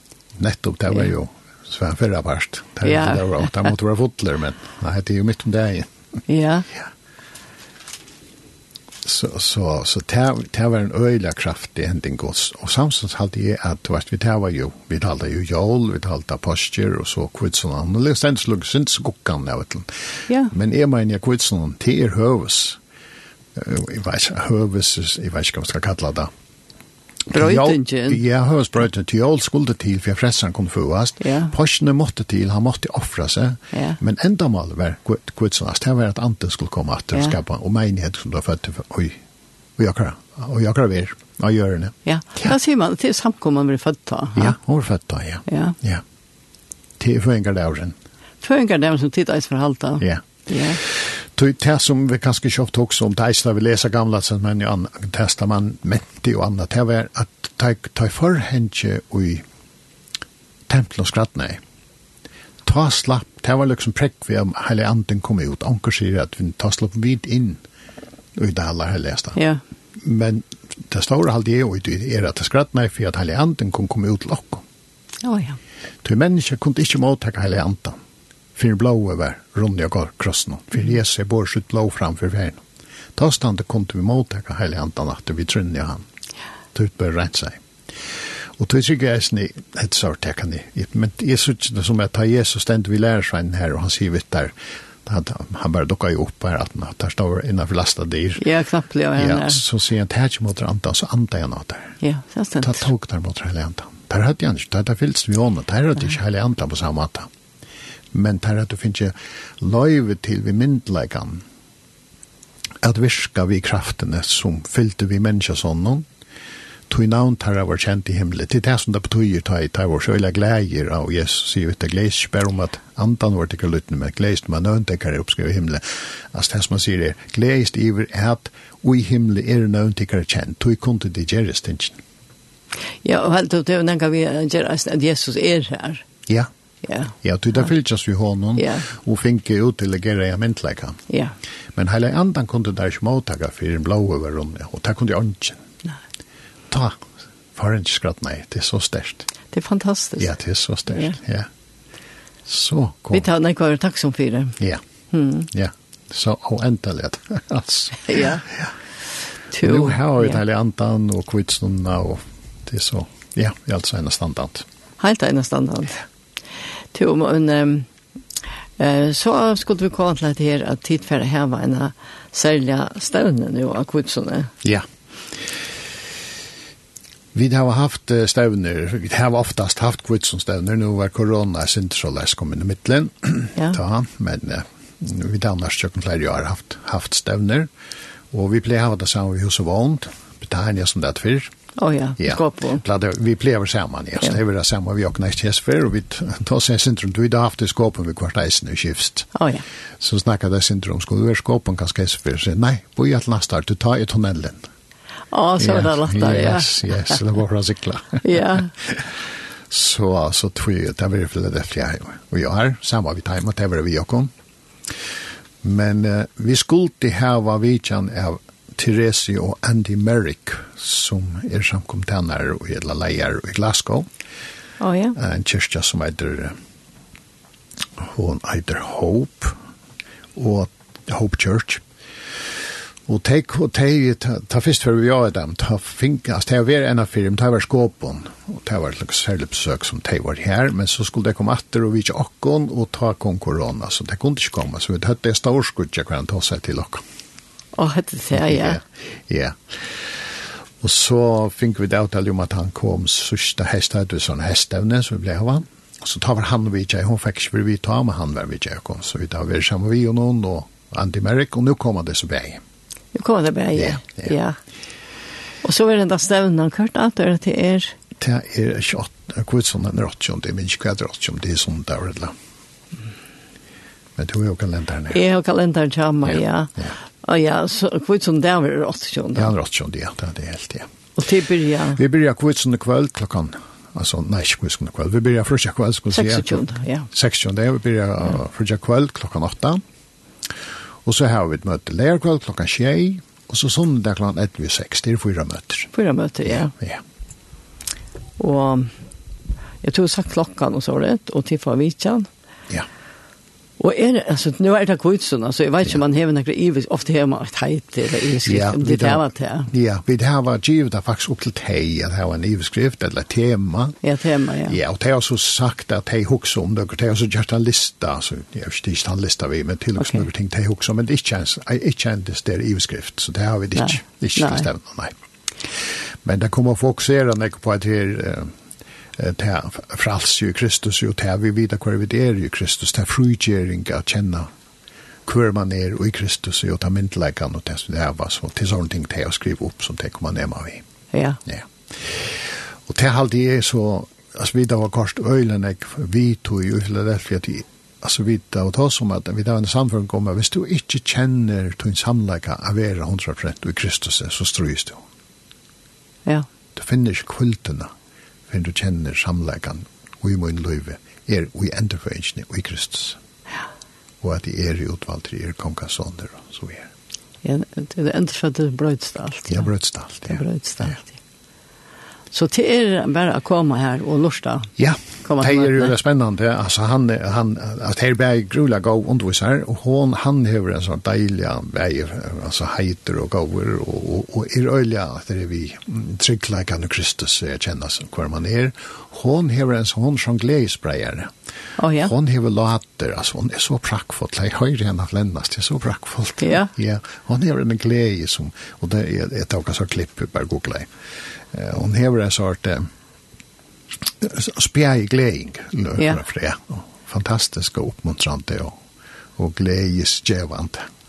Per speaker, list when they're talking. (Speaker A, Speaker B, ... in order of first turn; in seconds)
Speaker A: 0.4-5.9, 9.0-22.8, 23.6-26.3, 27.3-39.2, 39.8-42.5, 44.4-46.0, 47.0-48.0, 50.0-50.3, 50.8-59.4, 60.7-61.6, 62.6-67.6, 68.4-69.4, 70.0-74.6, 76.0-78.0, 78.6-82.6, 83.2-86.0, 86.8-87.6, 88.6-94.5, 95.0-98.4, 99.2-102.0, 102.6-107.3, 108.1-111.4, 112.8-116.1, 116.9-132.0, 137.2-141.0, 141.8-145.6, 146.7-147.0, 147.6-149.3, 150.2-151.5, 152.5-153.2, 155.5-158.7, 159.6-164.7, 177.3-187.7, 188.3-191.5, 192.2-199.3, 200.0-204.6, 205.6-209.2, 209.7-214.3, 215.6-224.1, 225.2-226.6, 228.0-229.6, 230.3-231.8, 233.1-247.0, 248.4-250.2, 250.8-262.6, 263.8-264.3, 268.2-272.3, 274.2-275.2, 276.3-276.9, 279.4-280.9, 281.9-289.8, 291.1-295.9, 296.5-297.0, 308.4-314.0, 314.7-325.1, 326.2-328.5, 329.2-334.5, 335.3-340.8, 341.5-355.0, 356.8-357.9, 358.5-363.2, 364.2-366.9, 369.5-370.9, 374.8-391.3, 392.0-400.9, 401.5-402.9, 404.2-408.8, 409.4-410.9
Speaker B: 2.8-3.7, 6.3-6.7, 27.3-28.2, 31.2-31.5, 33.7-34.0, 42.1-44.6, 45.5-45.8, 48.4-50.8, 69.4-69.6, 75.2-75.6, 98.4-99.6, 102.0-102.8, 133.0-136.1, 136.8-137.1, 138.6-138.9, 141.1-141.3, 149.5-150.3, 153.1-154.6, 155.1-155.5, 158.0-158.4, 159.5-160.4, 165.0-166.0, 166.9-167.9, 168.8-174.5, 191.8-192.8, 199.3-199.6, 205.3-207.2, 208.2-208.7, 224.8-225.2, 247.8-248.8, 263.1-264.6, 265.6-268.0, 275.1-279.5, 281.2-282.0, 286.1-287.1, 295.9-296.7, 298.4-298.9, 299.8-302.3, 303.8-309.7, 314.0-314.8, 320.0-320.2, 323.8-324.7, 341.1-341.4, 367.4-369.7, 370.3-371.1, 372.3-374.7, 375.2-375.9, 391.8-392.1, 396.4-396.7